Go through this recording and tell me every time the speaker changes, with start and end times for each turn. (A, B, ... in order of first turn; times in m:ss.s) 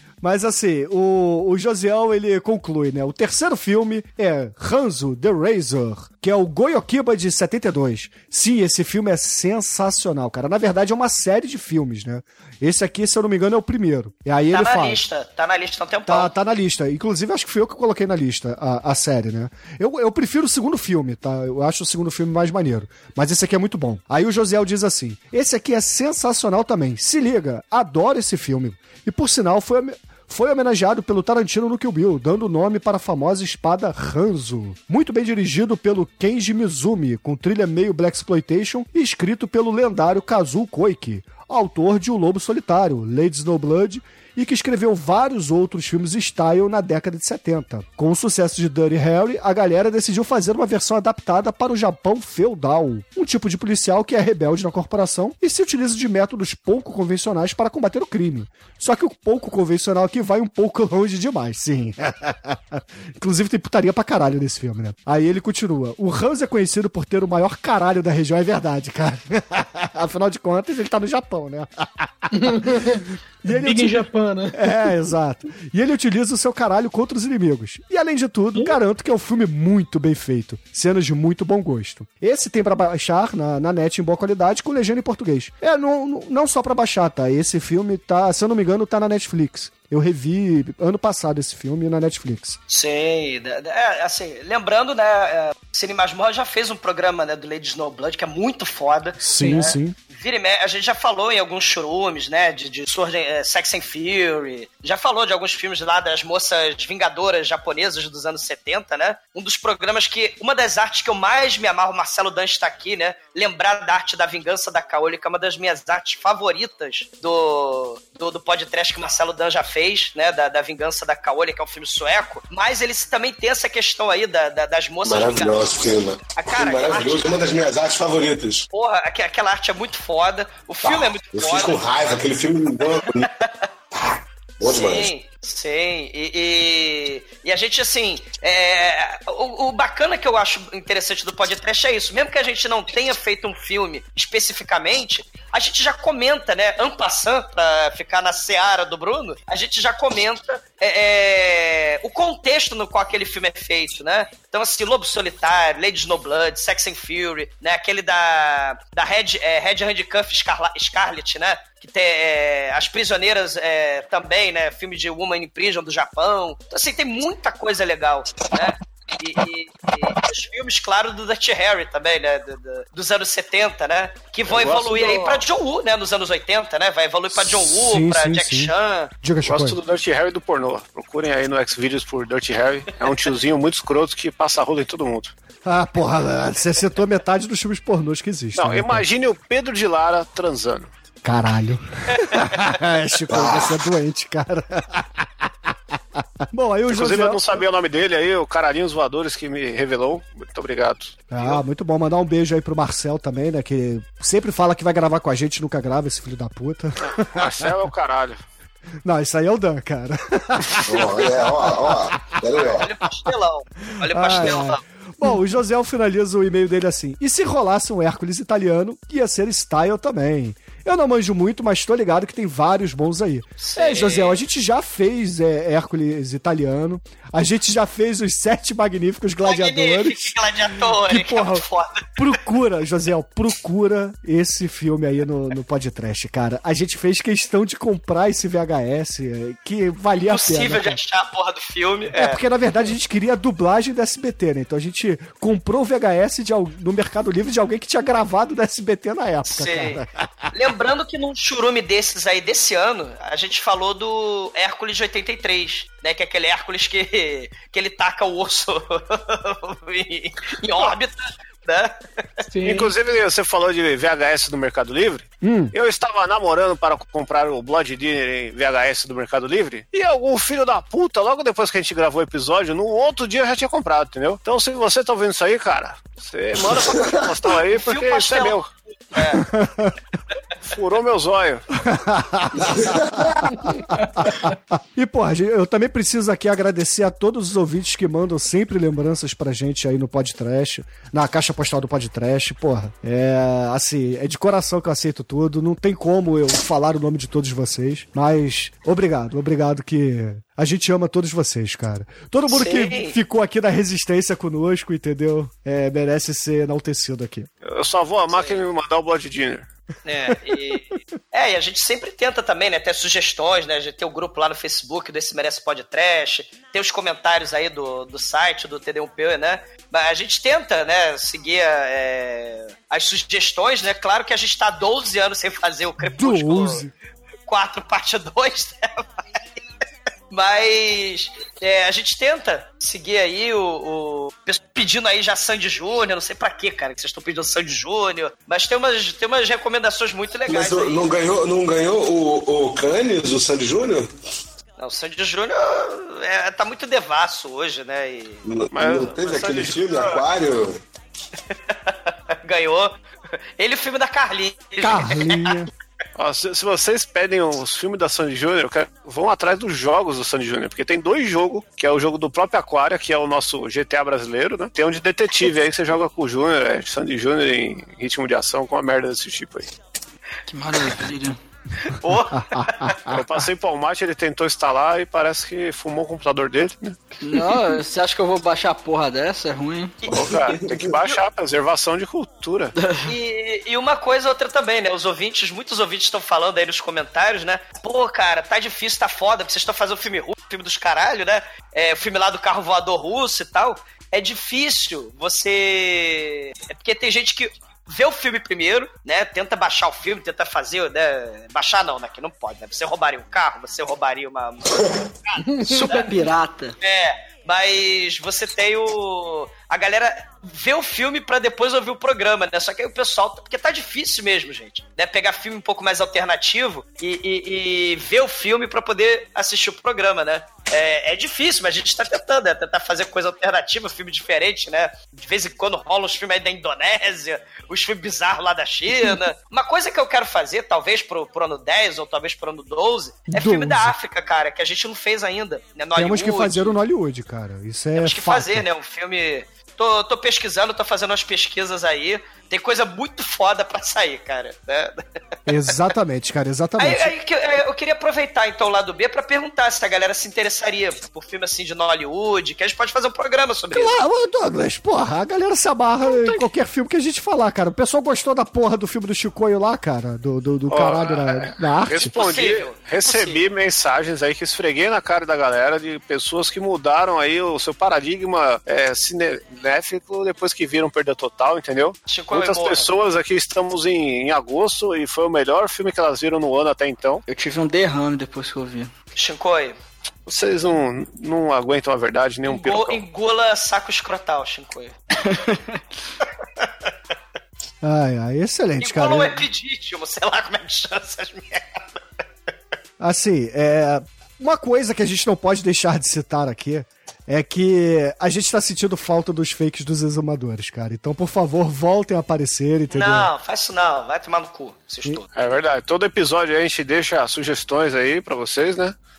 0:00.2-0:15.0 A
0:14.5-0:16.3 B
0:16.1-1:12.9 A
1:12.3-1:14.6 C
1:13.4-1:32.6 A
1:32.7-2:05.6 B
1:39.2-1:40.0 A
2:05.0-2:08.7 D
2:06.4-2:07.3 B
2:08.7-2:11.8 B
2:10.8-2:13.3 D
2:13.0-2:13.5 B
2:13.9-2:15.1 D
2:14.6-2:59.1 B
2:54.5-2:55.4 E
2:57.6-2:59.8 A
2:59.4-3:05.3 E
3:05.6-3:09.0 A
3:08.5-3:10.9 E
3:11.2-3:17.6 A
3:13.3-3:13.8 D
3:16.9-3:21.6 E
3:21.3-3:27.7 A
3:27.0-3:28.4 E
3:29.0-3:32.4 A
3:30.8-3:32.9 D
3:32.5-3:34.8 B
3:34.0-4:01.0 A
3:43.6-3:44.4 B
3:49.4-3:52.1 B
4:00.2-4:02.4 B
4:02.1-4:10.2 A
4:09.4-4:10.0 B
4:10.5-4:21.9 B
4:22.5-4:22.9 C
4:22.6-4:38.7 E
4:25.4-4:25.7 A
4:36.6-4:37.2 D
4:37.7-4:39.4 B
4:39.5-4:39.9 A
4:40.6-4:41.6 E
4:41.8-5:07.5 A
4:42.7-4:43.5 D
5:02.5-5:03.2 B
5:07.6-5:09.7 E
5:08.3-5:08.6 B
5:10.0-5:26.8 B
5:26.0-5:26.9 A
5:27.5-5:29.0 B
5:30.3-5:41.1 B
5:40.4-5:44.1 D
5:44.8-5:48.4 B
5:48.4-5:50.8 D
5:48.7-5:50.2 E
5:51.7-5:53.0 B
5:53.6-5:55.6 B
5:54.8-5:55.7 A
5:56.2-6:09.7 E
6:10.5-6:11.4 F
6:11.8-6:13.0 B
6:12.3-6:13.2 A
6:13.1-6:17.0 E
6:17.2-6:20.0 F
6:20.0-6:20.6 B
6:20.1-6:20.9 D
6:20.1-6:22.7 E
6:22.8-6:23.1 F
6:23.0-6:46.0 B
6:45.4-6:45.9 C
6:45.6-6:46.7 F
6:46.8-7:16.7 B
7:13.3-7:13.9 A
7:15.9-7:18.6 A
7:18.0-7:25.0 B
7:25.5-7:27.1 A
7:26.8-7:34.0 B
7:33.7-7:42.1 A
7:40.7-7:57.2 E
7:42.2-7:43.4 B
7:52.1-7:52.9 B
7:57.3-7:58.9 F
7:59.2-7:59.8 B
8:00.3-8:03.0 E
8:02.5-8:04.9 B
8:05.2-8:05.8 F
8:07.8-8:09.4 A
8:08.8-8:12.0 B
8:13.0-8:23.3 A
8:22.9-8:25.3 B
8:25.4-8:28.9 E